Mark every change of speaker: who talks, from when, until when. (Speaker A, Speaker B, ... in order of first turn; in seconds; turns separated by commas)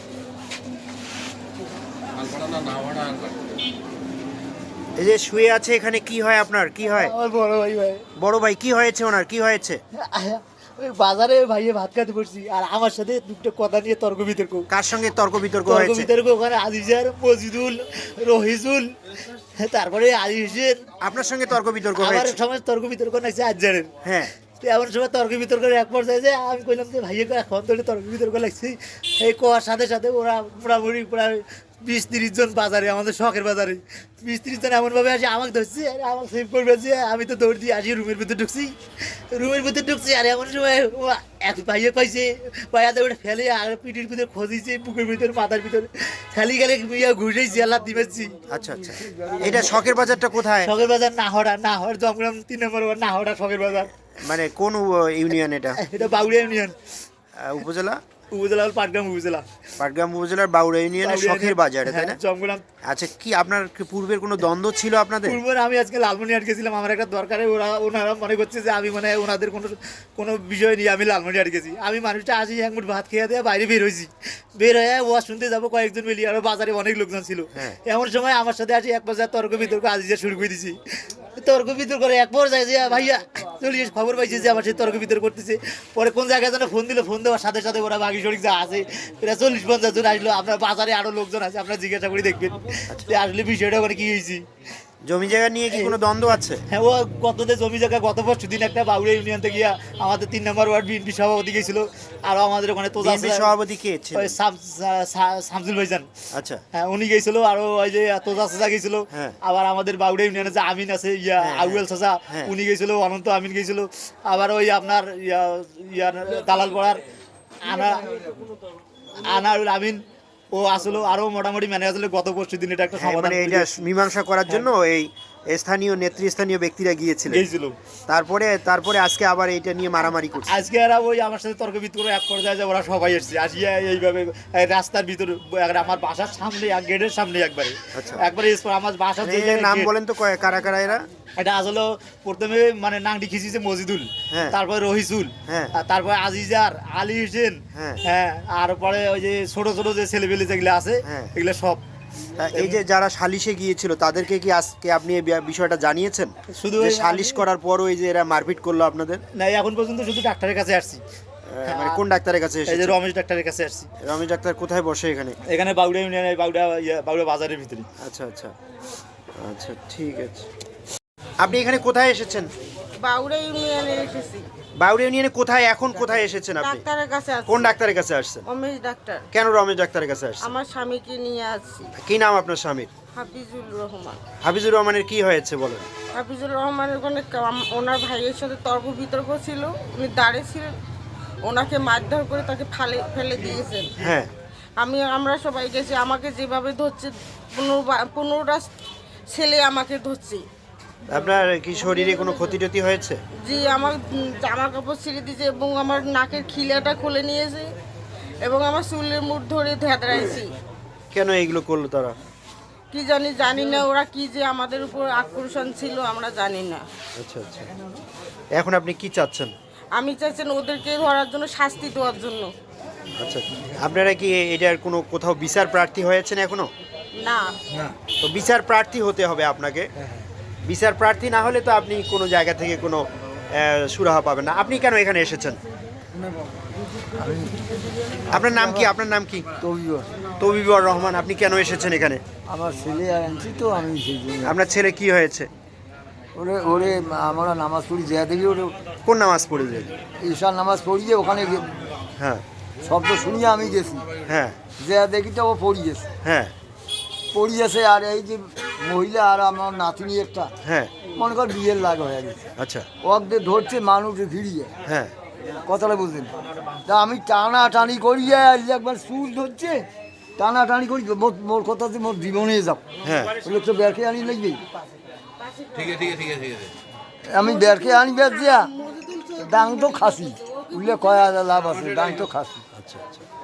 Speaker A: 5.0-7.1, Speaker B: 7.0-8.1, Speaker A: 8.2-9.8, Speaker B: 9.9-14.7, Speaker A: 14.7-16.1, Speaker B: 15.7-18.9, Speaker B: 19.6-20.9, Speaker A: 21.0-22.4, Speaker B: 22.0-23.9, Speaker A: 24.0-24.3, Speaker B: 24.4-48.4, Speaker A: 48.5-50.7, Speaker C: 48.8-50.0, Speaker B: 50.6-53.9, Speaker A: 54.1-55.8, Speaker B: 55.8-56.8, Speaker A: 57.4-58.0, Speaker B: 58.3-59.5, Speaker A: 59.8-62.2, Speaker B: 61.0-62.6, Speaker A: 62.8-65.4, Speaker B: 65.3-94.4, Speaker A: 92.9-93.1, Speaker A: 95.0-96.6, Speaker B: 95.7-96.0, Speaker B: 96.7-103.5, Speaker A: 103.0-104.4, Speaker B: 104.1-106.1, Speaker A: 106.3-106.6, Speaker B: 106.7-117.0, Speaker A: 109.1-109.4, Speaker A: 111.4-112.5, Speaker B: 117.6-118.2, Speaker B: 119.2-120.0, Speaker B: 120.5-123.7, Speaker A: 123.0-127.5, Speaker B: 127.3-127.8, Speaker A: 128.1-130.6, Speaker B: 130.5-139.9, Speaker A: 137.9-138.3, Speaker A: 139.2-141.1, Speaker B: 141.4-151.8, Speaker A: 144.3-144.6, Speaker A: 145.5-145.7, Speaker A: 147.7-148.0, Speaker A: 151.1-151.3, Speaker A: 152.4-159.2, Speaker B: 156.5-157.4, Speaker B: 159.3-161.0, Speaker A: 161.5-163.0, Speaker B: 161.7-162.0, Speaker B: 162.7-163.9, Speaker A: 164.0-165.4, Speaker B: 165.4-167.9, Speaker A: 168.0-168.6, Speaker A: 169.4-170.5, Speaker A: 171.4-172.5, Speaker D: 173.0-174.5, Speaker A: 174.8-176.9, Speaker D: 176.6-177.8, Speaker A: 177.5-178.5, Speaker D: 178.4-179.2, Speaker A: 179.3-180.5, Speaker D: 180.4-181.9, Speaker A: 182.0-182.9, Speaker D: 183.2-184.2, Speaker A: 184.4-185.9, Speaker D: 186.1-190.7, Speaker D: 191.4-194.0, Speaker A: 194.0-194.3, Speaker D: 194.8-198.7, Speaker D: 199.3-200.4, Speaker A: 201.1-203.2, Speaker D: 201.8-202.6, Speaker D: 203.4-207.7, Speaker D: 208.4-210.5, Speaker A: 211.1-212.2, Speaker D: 212.9-216.8, Speaker A: 217.2-217.7, Speaker A: 218.6-219.5, Speaker D: 219.9-222.5, Speaker A: 223.2-226.7, Speaker D: 227.2-227.5, Speaker A: 228.2-229.9, Speaker C: 230.0-230.2, Speaker A: 230.7-235.6, Speaker C: 237.1-238.9, Speaker A: 238.3-239.5, Speaker C: 239.6-240.2, Speaker A: 240.4-242.2, Speaker C: 242.5-244.6, Speaker A: 244.4-245.5, Speaker C: 246.3-248.8, Speaker A: 249.1-250.0, Speaker C: 250.2-251.7, Speaker A: 252.2-252.4, Speaker C: 252.8-254.1, Speaker A: 254.2-254.6, Speaker C: 254.8-256.1, Speaker A: 256.2-256.5, Speaker C: 257.3-260.5, Speaker A: 260.6-260.9, Speaker C: 261.1-262.5, Speaker A: 262.6-262.9, Speaker C: 263.0-264.7, Speaker A: 264.9-265.1, Speaker C: 265.7-266.3, Speaker C: 266.9-269.9, Speaker C: 270.4-272.8, Speaker A: 273.0-273.4, Speaker C: 273.4-274.6, Speaker D: 275.4-276.7, Speaker C: 277.3-278.7, Speaker D: 277.3-281.3, Speaker C: 279.4-282.7, Speaker A: 282.8-283.2